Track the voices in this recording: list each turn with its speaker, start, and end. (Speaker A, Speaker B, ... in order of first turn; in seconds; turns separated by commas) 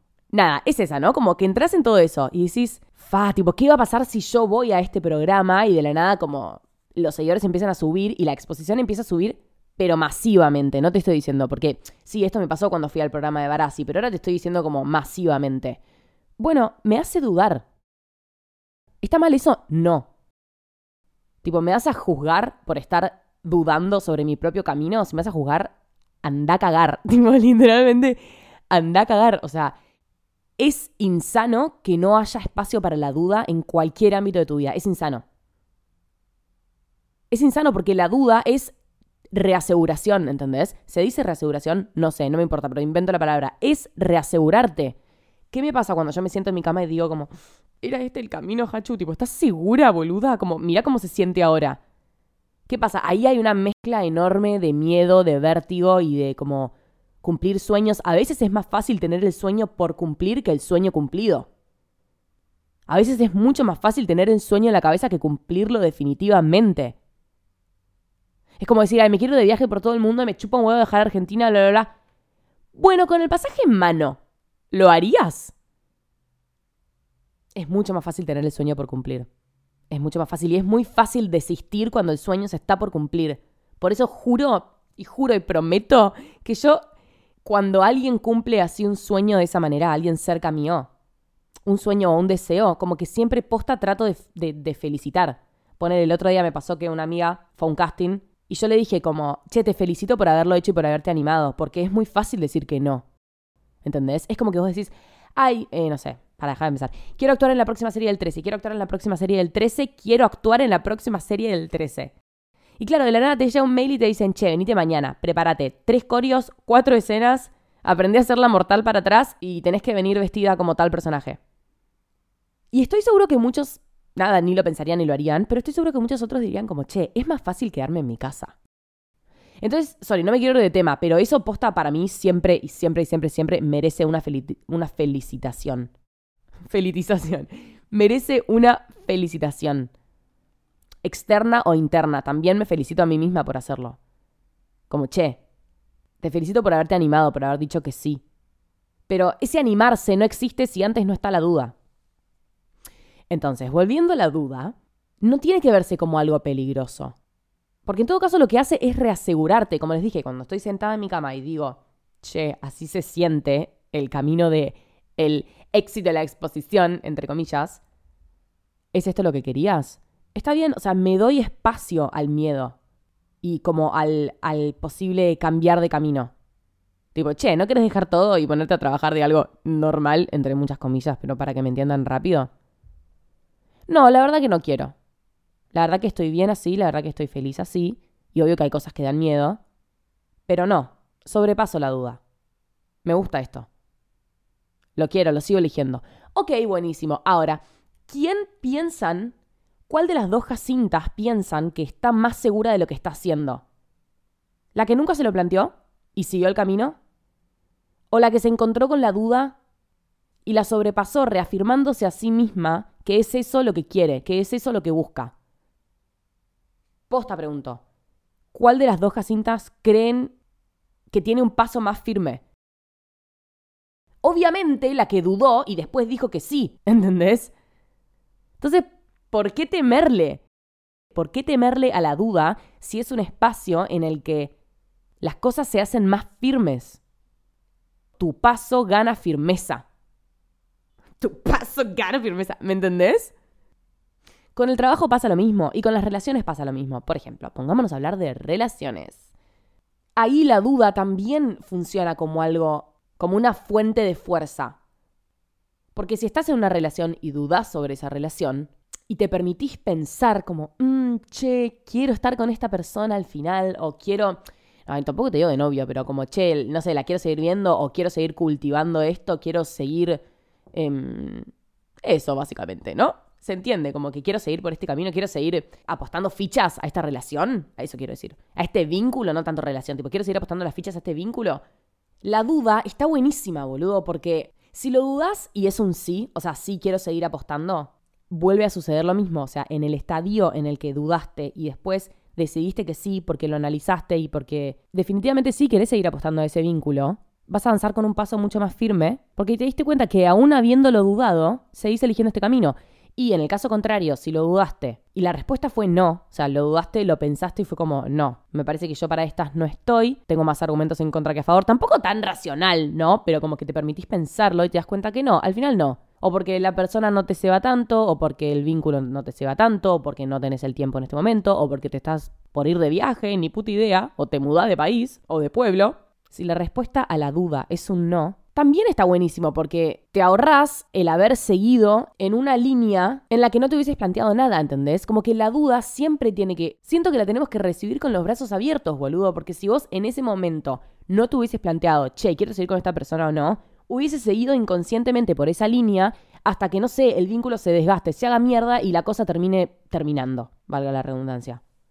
Speaker A: 0.3-15.8, Speaker A: 16.4-17.6, Speaker A: 19.0-20.1, Speaker A: 21.4-29.8, Speaker A: 30.6-35.2, Speaker A: 37.3-38.7, Speaker A: 39.3-45.0, Speaker A: 45.5-47.3, Speaker A: 47.8-51.8, Speaker A: 52.7-61.5, Speaker A: 62.9-67.0, Speaker A: 68.6-71.9, Speaker A: 72.7-74.2, Speaker A: 74.7-75.5, Speaker A: 77.5-79.3, Speaker A: 79.9-86.8, Speaker A: 87.4-90.9, Speaker A: 91.7-103.0, Speaker A: 103.8-112.1, Speaker A: 112.8-121.4, Speaker A: 122.7-128.6, Speaker A: 129.6-135.9, Speaker A: 136.7-139.9, Speaker A: 141.0-144.0, Speaker A: 144.9-145.4, Speaker A: 146.2-148.2, Speaker A: 149.1-151.8, Speaker A: 153.3-157.2, Speaker A: 157.9-167.8, Speaker A: 168.9-172.8, Speaker A: 173.4-176.3, Speaker A: 177.1-182.5, Speaker A: 183.9-184.9, Speaker A: 185.7-189.6, Speaker A: 190.5-192.2, Speaker A: 193.0-193.7, Speaker A: 195.0-199.3, Speaker A: 199.9-203.6, Speaker A: 204.8-207.0, Speaker A: 208.1-209.6, Speaker A: 210.4-215.3, Speaker A: 217.1-217.8, Speaker A: 218.5-220.3, Speaker A: 221.1-222.4, Speaker A: 224.2-227.5, Speaker A: 228.6-230.4, Speaker A: 231.1-234.5, Speaker A: 235.2-237.0, Speaker A: 238.2-239.8, Speaker A: 241.2-243.3, Speaker A: 244.5-249.3, Speaker A: 250.2-254.8, Speaker A: 255.9-270.2, Speaker A: 270.7-271.5, Speaker A: 272.0-281.6, Speaker A: 282.2-351.6